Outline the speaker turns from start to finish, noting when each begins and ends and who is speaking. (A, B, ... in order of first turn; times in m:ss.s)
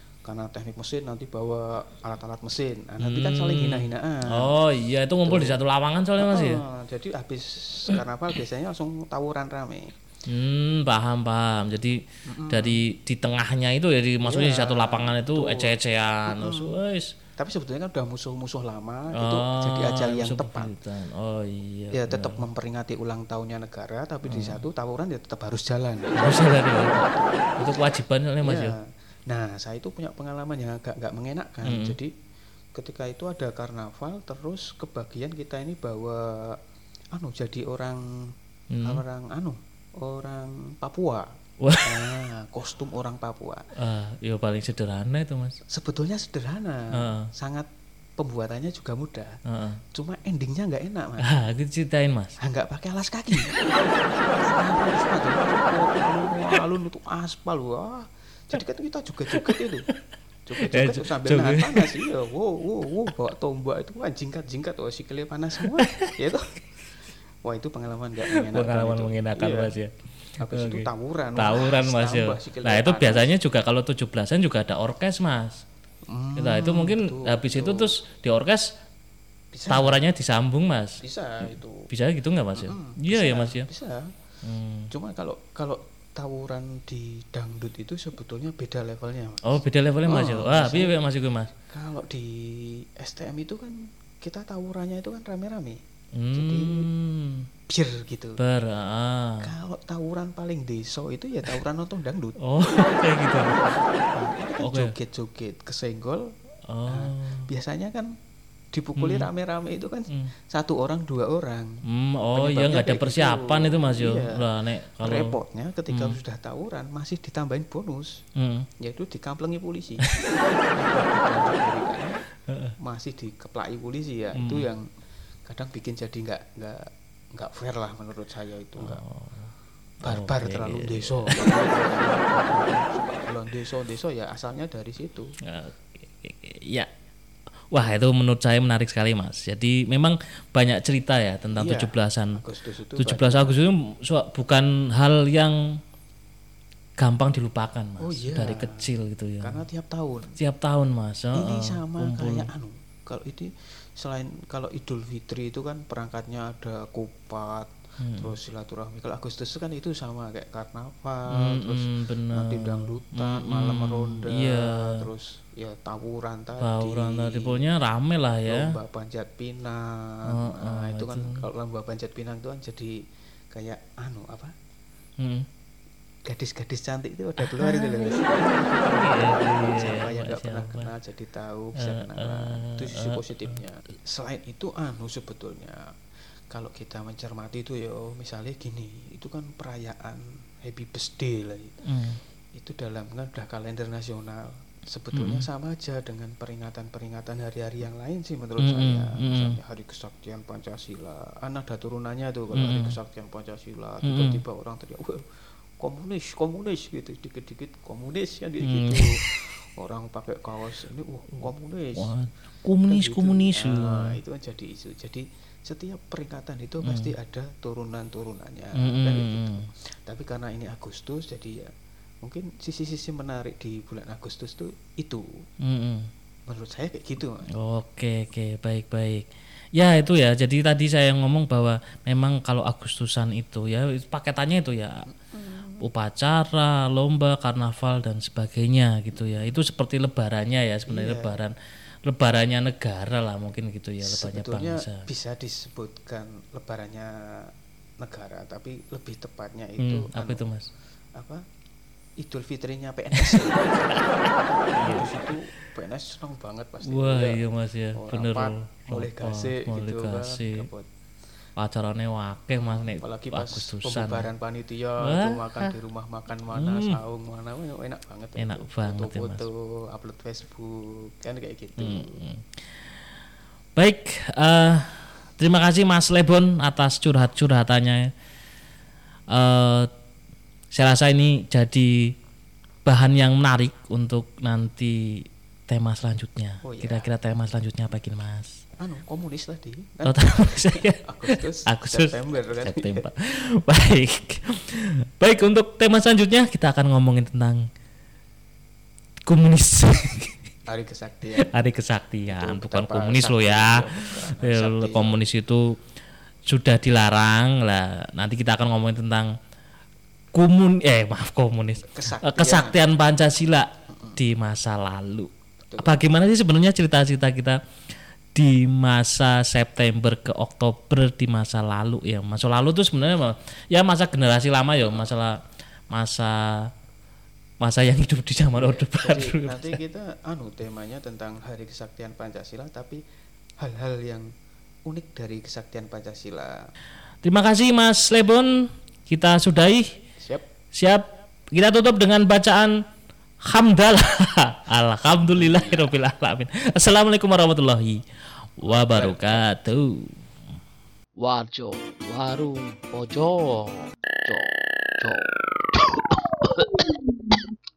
0:00.3-0:04.5 A
0:03.0-0:06.6 B
0:05.2-0:05.6 A
0:06.2-0:09.9 A
0:10.3-0:17.1 B
0:12.3-0:12.8 A
0:14.2-0:16.7 A
0:17.4-0:20.8 A
0:19.2-0:22.4 B
0:21.9-0:27.6 A
0:24.2-0:24.6 B
0:26.2-0:27.1 B
0:27.6-0:28.8 B
0:28.4-0:32.1 A
0:31.7-0:32.0 B
0:32.8-0:36.5 A
0:37.2-0:38.0 A
0:38.7-0:39.0 B
0:38.8-0:41.2 A
0:41.6-0:42.0 B
0:41.8-0:43.6 A
0:43.8-0:45.6 B
0:45.7-0:47.7 A
0:47.0-0:47.3 B
0:48.2-0:49.3 A
0:49.5-0:49.8 B
0:49.9-0:51.3 A
0:51.2-0:52.4 B
0:52.4-0:53.5 A
0:54.3-0:59.9 A
0:59.3-0:59.6 B
1:00.5-1:06.6 A
1:00.6-1:02.0 B
1:05.8-1:06.1 B
1:07.4-1:09.8 A
1:08.3-1:09.9 B
1:10.4-1:13.3 A
1:10.5-1:15.6 B
1:16.1-1:18.0 A
1:16.4-1:18.7 B
1:19.5-1:20.0 A
1:19.7-1:21.0 B
1:21.0-1:21.9 A
1:21.9-1:23.7 B
1:22.6-1:24.1 A
1:24.4-1:24.9 B
1:24.9-1:31.0 A
1:29.4-1:31.5 B
1:31.7-1:35.8 A
1:36.2-1:37.4 B
1:36.3-1:36.9 A
1:37.7-1:38.4 A
1:38.4-1:39.5 B
1:39.4-1:42.4 A
1:42.5-1:43.6 B
1:43.4-1:46.2 A
1:44.6-1:44.9 B
1:46.7-1:47.4 B
1:46.9-1:48.1 A
1:48.7-1:51.7 A
1:49.0-1:49.3 B
1:51.9-1:55.4 B
1:52.3-1:54.4 A
1:55.0-1:58.1 A
1:55.9-1:56.2 B
1:58.4-1:58.7 B
1:58.8-2:00.1 A
2:00.7-2:02.2 A
2:02.5-2:02.7 B
2:02.8-2:04.9 A
2:04.4-2:04.7 B
2:05.5-2:06.8 A
2:07.4-2:09.0 A
2:08.8-2:09.5 B
2:10.0-2:11.6 B
2:10.0-2:15.3 A
2:15.5-2:16.9 B
2:17.7-2:22.4 B
2:21.6-2:23.6 A
2:23.0-2:25.6 B
2:27.0-2:29.6 B
2:28.0-2:28.9 A
2:29.4-2:30.4 A
2:30.4-2:32.5 B
2:31.3-2:47.6 A
2:38.0-2:38.4 B
2:41.3-2:45.1 B
2:46.6-2:48.7 B
2:48.5-2:52.9 A
2:50.3-2:51.4 B
2:53.5-2:54.5 A
2:55.2-2:55.5 B
2:56.3-3:05.8 A
2:57.4-3:00.9 B
3:01.8-3:03.6 B
3:06.5-3:11.8 A
3:11.9-3:12.2 B
3:12.6-3:25.2 A
3:15.1-3:15.5 B
3:18.6-3:19.6 B
3:22.5-3:23.0 B
3:24.0-3:24.4 B
3:25.8-3:32.1 A
3:28.6-3:29.2 B
3:32.0-3:34.2 B
3:32.8-3:41.7 A
3:36.8-3:37.1 B
3:38.8-3:39.7 B
3:42.2-3:45.2 A
3:45.7-3:46.1 B
3:46.5-3:47.5 A
3:47.6-3:55.1 B
3:55.1-3:55.9 A
3:55.8-4:01.5 B
3:59.1-3:59.6 A
4:00.9-4:01.4 A
4:02.1-4:05.0 B
4:04.0-4:07.1 A
4:08.0-4:10.5 A
4:09.8-4:10.7 B
4:12.2-4:14.1 A
4:13.2-4:15.1 B
4:14.7-4:17.4 A
4:16.8-4:20.7 B
4:18.0-4:20.9 A
4:21.6-4:24.3 B
4:22.6-4:32.2 A
4:25.0-4:25.7 B
4:26.5-4:27.0 B
4:28.4-4:29.5 B
4:31.8-4:32.6 B
4:33.8-4:38.1 B
4:39.3-4:39.9 B
4:40.7-4:42.1 B
4:42.9-4:48.5 B
4:46.6-4:47.1 A
4:48.8-4:53.1 A
4:50.1-4:57.6 B
4:59.3-5:00.4 B
5:00.7-5:01.5 A
5:01.4-5:05.8 B
5:02.3-5:05.2 A
5:06.5-5:09.3 B
5:10.4-5:17.6 B
5:11.8-5:12.8 A
5:13.9-5:14.2 A
5:15.7-5:16.0 A
5:18.4-5:25.4 B
5:24.8-5:25.2 A
5:25.9-5:26.4 B
5:27.6-5:29.8 B
5:28.5-5:33.0 A
5:33.6-5:34.3 A
5:34.9-5:36.6 A
5:37.2-5:40.0 B
5:40.2-5:40.4 A
5:40.7-5:41.0 B
5:41.5-5:42.7 B
5:43.5-5:48.0 B
5:45.3-5:46.0 A
5:48.6-5:50.1 B
5:48.7-5:49.8 A
5:51.2-5:57.4 C